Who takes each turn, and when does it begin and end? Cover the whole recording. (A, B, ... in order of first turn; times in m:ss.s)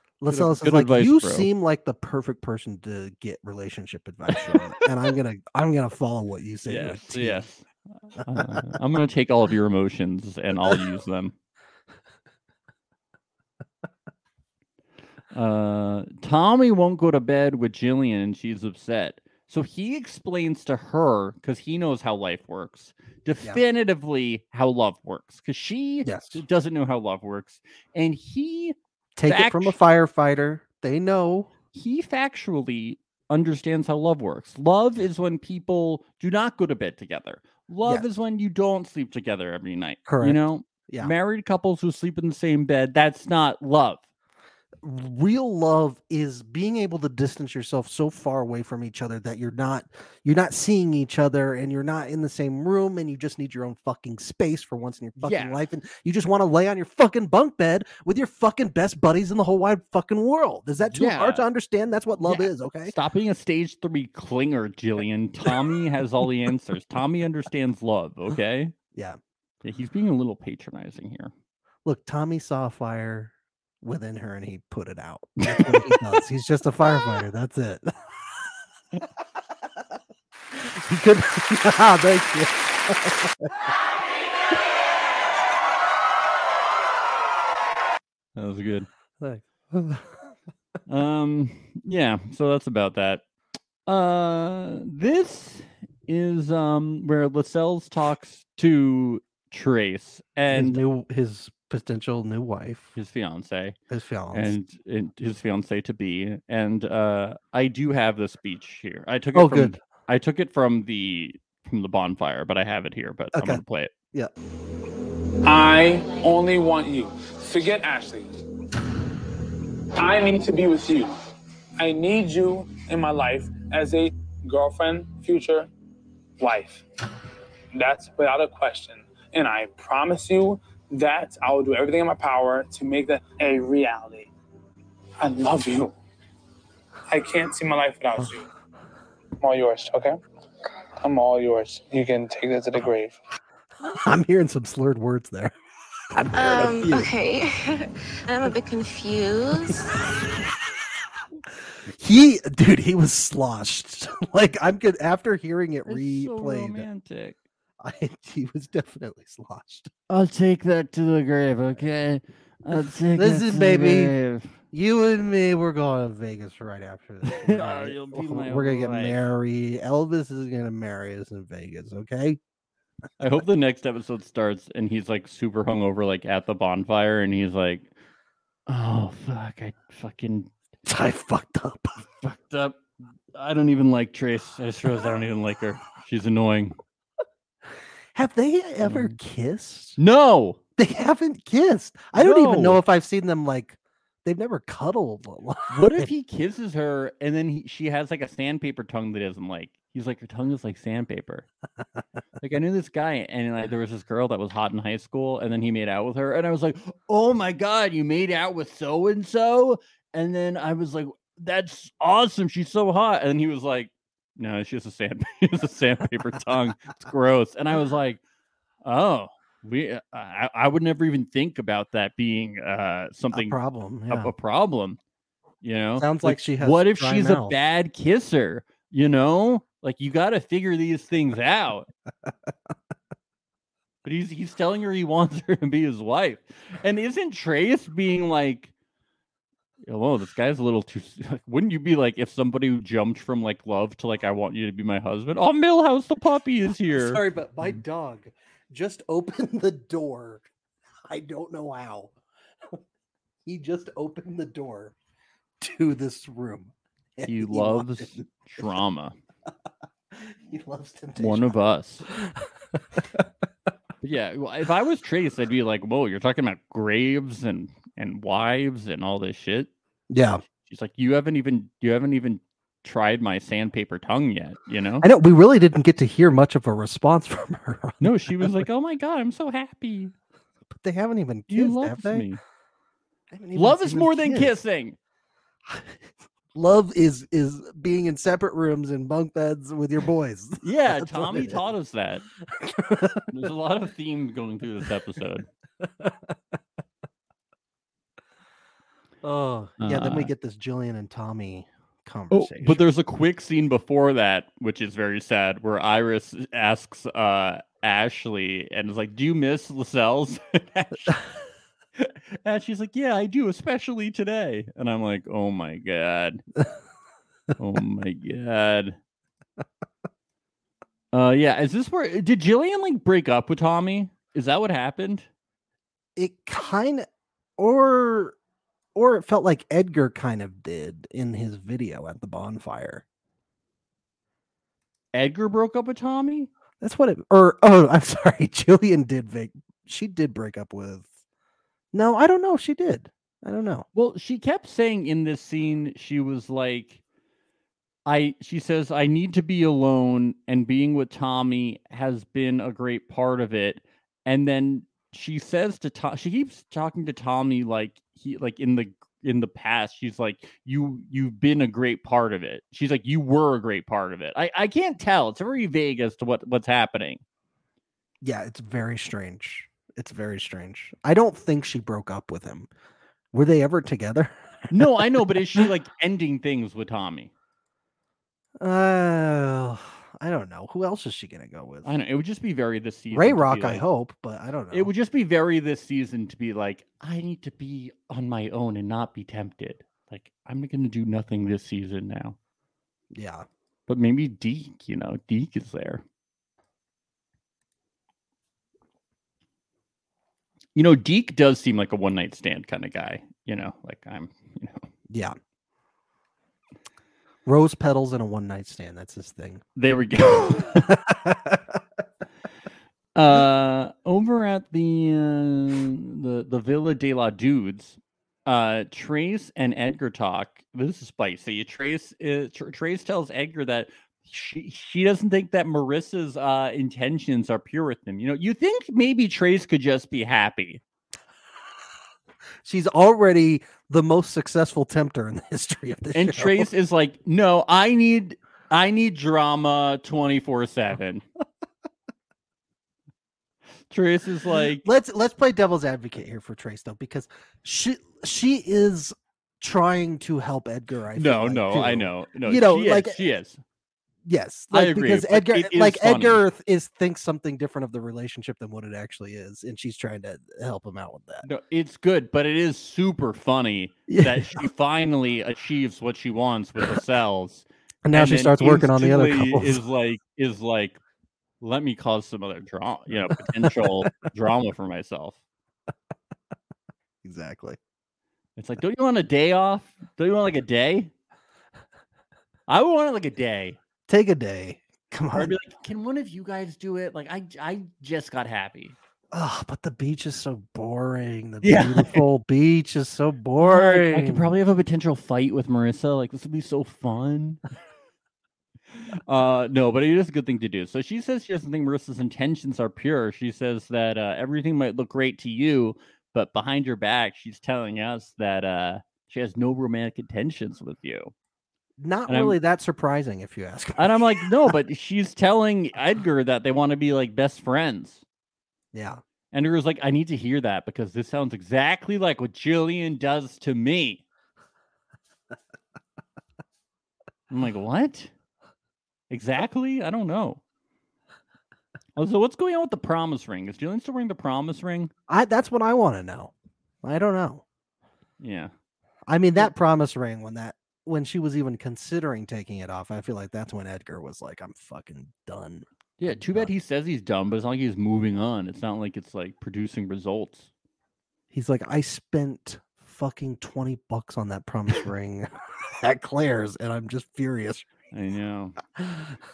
0:00.2-0:07.5 A
0:00.3-0:01.5 B
0:06.7-0:11.4 B
0:15.3-0:28.8 B
0:26.0-0:26.4 A
0:29.2-0:31.5 A
0:29.3-0:29.8 B
0:31.8-0:44.0 B
0:40.1-0:41.1 A
0:44.8-1:03.0 A
0:55.2-0:55.6 B
1:00.9-1:01.4 B
1:02.2-1:08.7 B
1:09.6-1:11.3 B
1:11.8-1:18.2 A
1:15.4-1:16.0 B
1:20.5-1:23.5 A
1:28.4-1:28.9 B
1:29.2-1:30.3 A
1:30.9-1:33.2 B
1:33.9-1:40.8 B
1:40.5-1:43.0 A
1:43.0-1:43.8 B
1:43.9-1:44.5 A
1:44.3-1:53.9 B
1:49.3-1:49.8 A
1:53.3-1:53.6 A
1:55.4-1:58.3 C
2:00.0-2:01.1 C
2:01.8-2:05.7 C
2:06.4-2:06.8 C
2:07.7-2:14.3 C
2:15.2-2:16.0 C
2:17.1-2:18.5 C
2:19.4-2:20.2 C
2:21.0-2:23.2 C
2:23.8-2:25.6 A
2:26.1-2:27.1 A
2:26.3-2:29.9 D
2:31.9-2:36.9 A
2:35.9-2:37.4 B
2:37.8-2:39.9 A
2:40.1-2:44.6 B
2:43.1-2:44.2 A
2:44.7-2:52.4 A
2:47.2-2:49.2 B
2:53.2-2:57.9 B
2:58.7-3:00.5 B
3:00.9-3:02.0 A
3:02.1-3:02.8 B
3:03.3-3:06.8 B
3:08.1-3:10.0 A
3:08.8-3:09.2 B
3:10.0-3:10.6 B
3:10.8-3:16.1 A
3:12.1-3:12.8 B
3:15.7-3:21.5 B
3:22.4-3:38.2 B
3:38.8-3:43.6 B
3:43.3-3:44.3 A
3:44.1-3:45.0 B
3:45.6-3:51.9 B
3:46.0-3:47.6 A
3:54.0-3:58.7 B
3:59.8-4:07.2 B
4:06.9-4:10.4 A
4:11.1-4:12.1 A
4:13.4-4:15.0 A
4:15.6-4:18.3 A
4:17.2-4:19.2 B
4:20.2-4:21.6 A
4:21.2-4:22.1 B
4:22.1-4:22.4 A
4:23.0-4:23.2 A
4:24.0-4:29.7 B
4:30.1-4:30.4 A
4:30.6-4:35.1 B
4:35.0-4:38.7 A
4:38.0-4:40.1 B
4:40.7-4:42.3 A
4:41.5-4:42.4 B
4:43.3-4:44.6 A
4:43.6-4:45.0 B
4:45.7-4:45.9 A
4:46.5-4:51.6 A
4:50.6-4:52.2 B
4:52.5-4:53.3 A
4:53.3-4:55.5 B
4:55.8-4:56.4 A
4:59.2-5:02.8 A
4:59.8-5:00.3 B
5:02.3-5:11.2 B
5:12.0-5:16.4 B
5:17.6-5:19.0 B
5:21.1-5:25.3 B
5:26.2-5:27.1 A
5:27.6-5:28.4 A
5:29.0-5:33.0 A
5:35.1-5:36.5 B
5:36.8-5:41.1 A
5:41.9-5:43.9 A
5:43.9-5:47.0 B
5:48.1-6:07.2 B
6:08.2-6:12.7 A
6:13.3-6:15.7 A
6:14.7-6:17.3 B
6:18.6-6:21.9 A
6:21.8-6:23.9 B
6:23.1-6:24.9 A
6:24.7-6:32.4 B
6:33.1-6:33.5 A
6:33.9-6:36.0 B
6:40.8-6:44.9 B
6:45.1-6:45.4 A
6:47.5-6:49.6 A
6:49.8-6:50.9 B
6:50.7-6:51.8 A
6:53.2-7:10.8 B
7:12.6-7:16.7 A
7:16.1-7:21.2 B
7:23.9-7:24.8 B
7:24.6-7:33.2 A
7:31.2-7:33.6 B
7:34.2-7:41.5 A
7:34.7-7:36.4 B
7:41.4-7:51.0 B
7:44.1-7:44.7 A
7:48.0-7:49.8 A
7:51.6-7:55.4 B
7:53.6-7:53.9 A
7:57.2-7:57.8 A
7:58.6-8:01.1 B
8:02.7-8:03.8 B
8:04.1-8:05.6 A
8:05.4-8:09.0 B
8:09.3-8:14.5 A
8:11.6-8:12.3 B
8:13.6-8:17.6 B
8:19.3-8:31.3 B
8:32.0-8:34.7 A
8:32.3-8:32.6 B
8:34.0-8:38.2 B
8:38.9-8:39.2 A
8:39.5-8:44.2 B
8:47.5-8:48.3 B
8:49.3-8:50.6 B
8:52.2-8:55.1 B
8:55.3-8:56.5 A
8:57.0-8:57.6 A
8:58.4-8:58.7 B
8:59.3-9:06.7 A
9:06.2-9:10.7 B
9:11.5-9:17.9 A
9:18.1-9:18.8 B
9:19.0-9:19.3 A